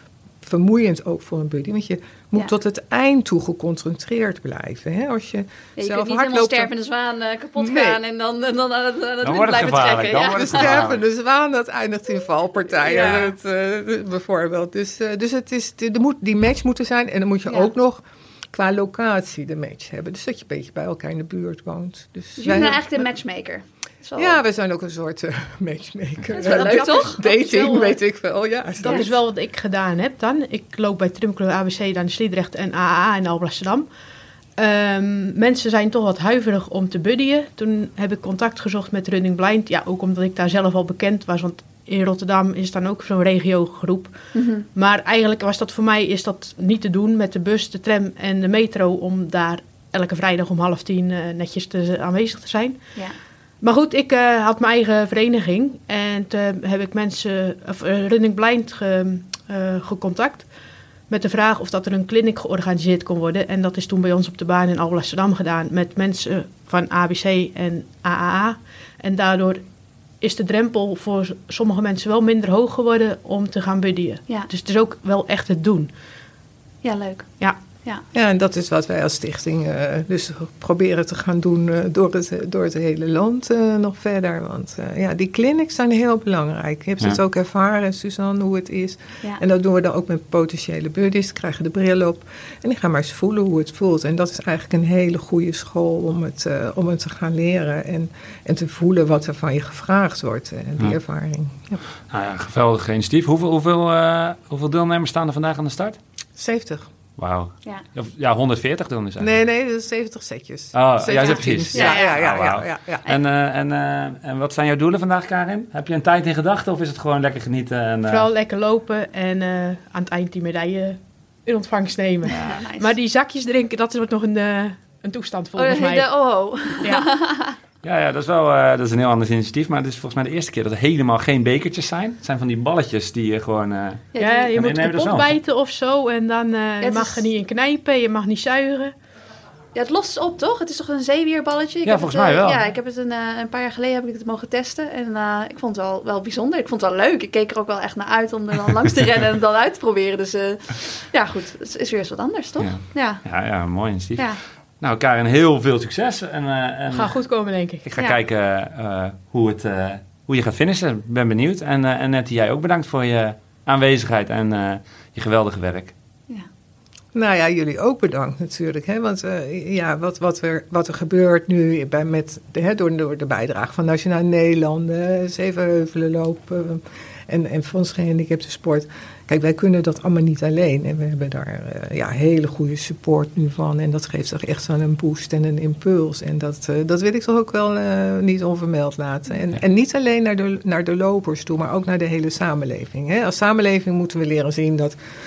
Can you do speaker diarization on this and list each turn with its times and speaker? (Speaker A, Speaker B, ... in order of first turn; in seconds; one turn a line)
Speaker A: 0.4-6.7
Speaker B: 5.8-10.9
Speaker A: 7.5-8.0
Speaker C: 9.2-10.9
Speaker A: 10.1-23.1
Speaker B: 12.8-13.3
Speaker B: 22.4-24.4
Speaker A: 24.2-29.1
Speaker B: 26.3-27.9
Speaker D: 26.4-27.8
Speaker D: 28.8-33.9
Speaker D: 34.6-52.9
Speaker B: 44.3-44.6
Speaker D: 53.6-60.5
Speaker D: 61.1-69.6
Speaker D: 70.2-75.9
Speaker B: 76.8-78.0
Speaker A: 78.1-101.8
Speaker C: 102.1-106.0
Speaker A: 106.4-106.9
Speaker C: 107.2-109.4
Speaker A: 109.2-113.1
Speaker C: 110.7-118.3
Speaker B: 111.7-112.2
Speaker D: 118.0-126.1
Speaker B: 122.4-122.9
Speaker B: 125.6-127.5
Speaker D: 126.8-127.1
Speaker C: 127.8-135.4
Speaker B: 134.1-134.5
Speaker D: 134.2-138.9
Speaker B: 136.8-137.2
Speaker B: 139.7-153.3
Speaker C: 141.8-142.6
Speaker C: 152.6-157.2
Speaker D: 156.9-157.8
Speaker C: 157.8-165.9
Speaker A: 167.1-194.9